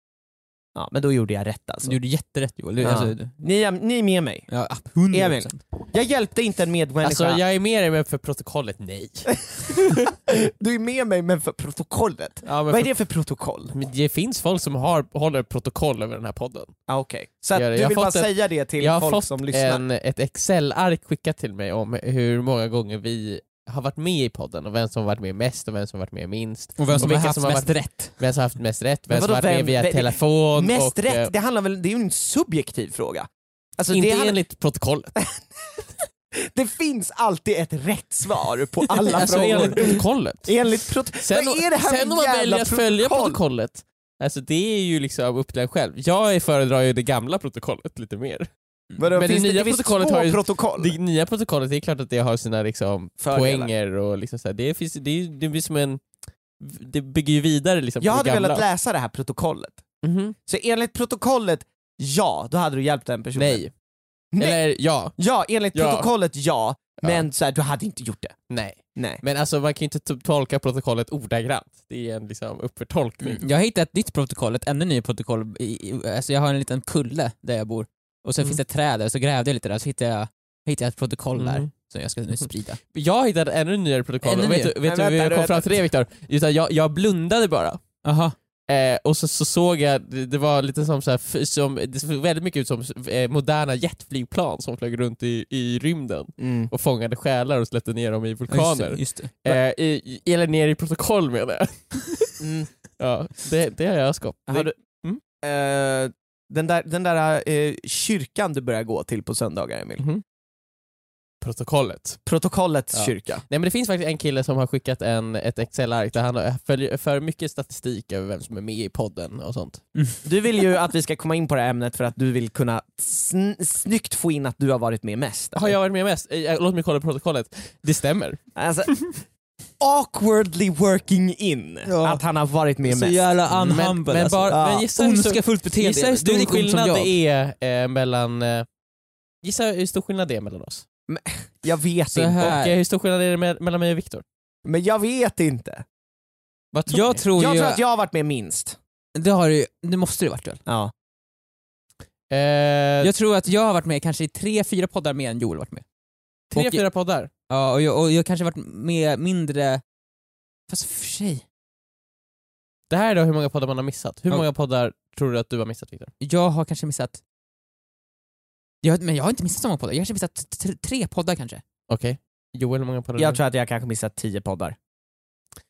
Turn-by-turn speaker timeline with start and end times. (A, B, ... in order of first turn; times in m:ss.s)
0:00.8-0:02.0 A
0:01.8-0:03.3 B
0:02.8-0:04.5 A
0:04.5-0:05.6 B
0:05.1-0:07.4 A
0:07.0-0:10.0 C
0:09.7-0:13.7 A
0:12.4-0:12.9 C
0:13.7-0:16.7 C
0:16.9-0:19.8 A
0:17.5-0:31.3 C
0:26.8-0:28.2 B
0:29.1-0:34.4 A
0:33.9-0:35.1 C
0:35.2-0:43.4 A
0:39.0-0:40.6 C
0:41.2-0:48.5 C
0:49.0-0:51.0 A
0:49.2-0:56.0 C
0:53.2-0:53.7 A
0:56.6-0:58.6 C
0:58.0-0:59.8 A
1:00.0-1:00.4 C
1:00.5-1:03.6 A
1:03.4-1:03.7 C
1:04.3-1:04.6 A
1:04.4-1:05.2 C
1:05.2-1:08.4 A
1:05.7-1:06.1 C
1:08.5-1:13.4 C
1:09.0-1:09.2 A
1:13.3-1:22.8 B
1:21.4-1:21.7 C
1:22.9-1:27.8 C
1:24.2-1:24.7 B
1:24.8-1:25.7 A
1:28.0-1:28.4 B
1:28.7-1:42.4 C
1:36.4-1:36.7 A
1:38.5-1:39.6 B
1:42.4-1:42.7 A
1:43.0-1:45.2 C
1:44.5-1:44.7 A
1:45.4-1:50.0 A
1:51.4-1:52.2 C
1:52.3-1:53.4 A
1:52.9-1:59.8 C
2:00.2-2:05.8 A
2:05.5-2:09.2 C
2:08.6-2:09.0 A
2:09.8-2:13.2 A
2:11.9-2:12.2 B
2:12.8-2:17.1 B
2:13.5-2:18.7 C
2:14.5-2:14.9 A
2:19.4-2:20.8 C
2:21.1-2:22.5 A
2:22.1-2:22.8 B
2:22.4-2:24.2 C
2:24.6-2:25.8 A
2:26.7-2:27.2 C
2:26.9-2:27.8 B
2:27.4-2:28.8 A
2:29.2-2:30.6 B
2:30.7-2:30.9 A
2:32.3-2:33.1 C
2:33.0-2:35.8 B
2:36.5-2:37.3 C
2:36.5-2:36.8 B
2:37.5-2:39.8 B
2:40.7-2:41.4 B
2:42.9-2:46.1 C
2:46.2-2:47.2 B
2:48.8-2:51.6 B
2:51.9-2:53.4 C
2:53.2-2:54.8 A